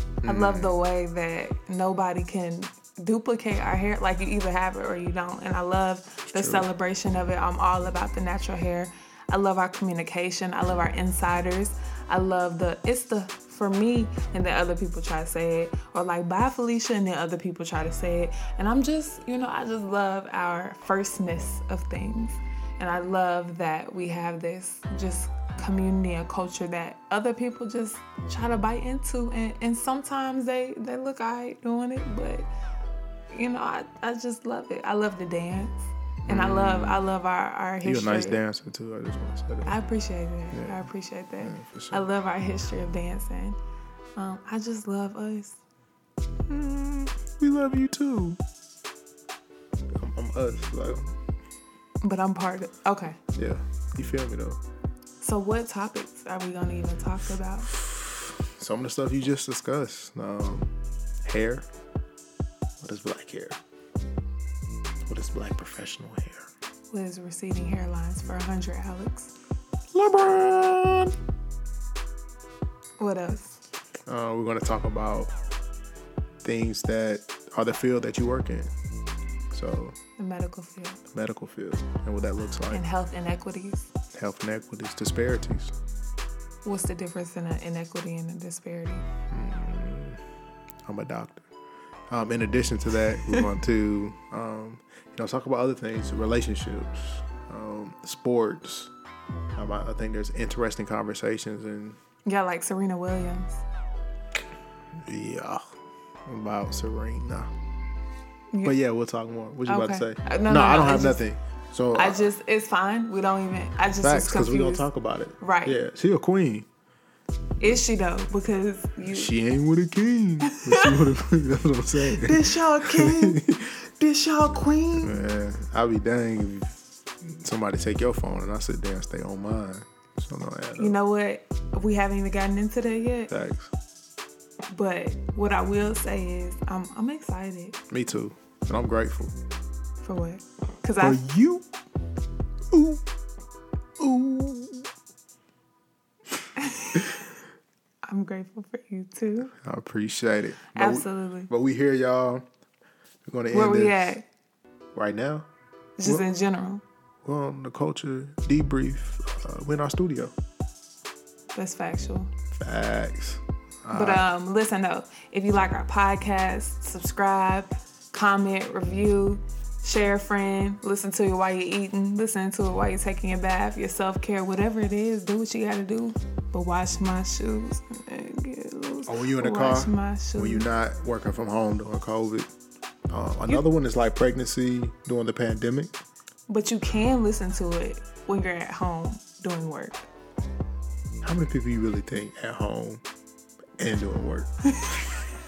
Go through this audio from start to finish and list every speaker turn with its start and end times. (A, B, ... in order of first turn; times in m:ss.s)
0:00.2-0:00.8 A
0:00.2-0:32.5 B
0:06.3-0:06.7 A
0:33.3-0:38.4 B
0:36.3-0:37.1 A
0:37.8-0:39.8 A
0:39.6-0:43.6 B
0:40.5-0:40.9 A
0:41.4-0:42.0 A
0:44.2-0:45.6 B
0:46.5-0:48.4 A
0:50.0-0:51.1 A
0:52.0-0:53.2 B
0:53.4-0:54.6 A
0:55.2-0:57.8 B
0:58.6-1:00.7 A
1:01.2-1:01.7 A
1:02.8-1:03.6 A
1:05.0-1:06.5 A
1:06.9-1:09.3 B
1:09.9-1:11.2 A
1:13.0-1:13.6 B
1:14.1-1:15.3 A
1:16.4-1:18.7 A
1:19.5-1:20.0 A
1:20.2-1:21.0 B
1:21.1-1:22.8 A
1:22.7-1:23.9 B
1:24.1-1:25.7 A
1:26.6-1:29.0 B
1:29.3-1:30.2 A
1:30.8-1:31.5 A
1:32.1-1:38.9 A
1:39.6-1:42.0 A
1:42.2-1:43.6 B
1:45.1-1:45.7 A
1:46.3-1:47.5 A
1:48.6-1:52.3 A
1:49.7-1:51.2 B
1:51.9-1:54.9 B
1:54.0-1:56.7 A
1:55.4-1:55.8 B
1:57.6-1:59.4 B
1:59.0-2:03.7 A
2:00.5-2:01.1 B
2:02.0-2:05.2 B
2:05.0-2:11.0 A
2:10.8-2:13.3 B
2:13.3-2:13.7 A
2:14.7-2:17.8 B
2:17.9-2:19.4 A
2:20.0-2:21.2 B
2:21.0-2:21.7 A
2:22.7-2:23.0 A
2:24.0-2:24.9 A
2:26.6-2:27.2 B
2:28.1-2:29.5 B
2:29.5-2:32.4 A
2:30.8-2:31.5 B
2:33.3-2:34.2 A
2:33.5-2:34.2 B
2:34.9-2:35.5 A
2:36.0-2:36.8 B
2:37.2-2:40.3 A
2:41.5-2:42.3 B
2:42.5-2:44.3 A
2:43.9-3:00.7 B
2:59.1-3:02.5 A
3:03.1-3:06.0 A
3:06.5-3:10.1 B
3:11.2-3:13.0 A
3:13.8-3:14.5 A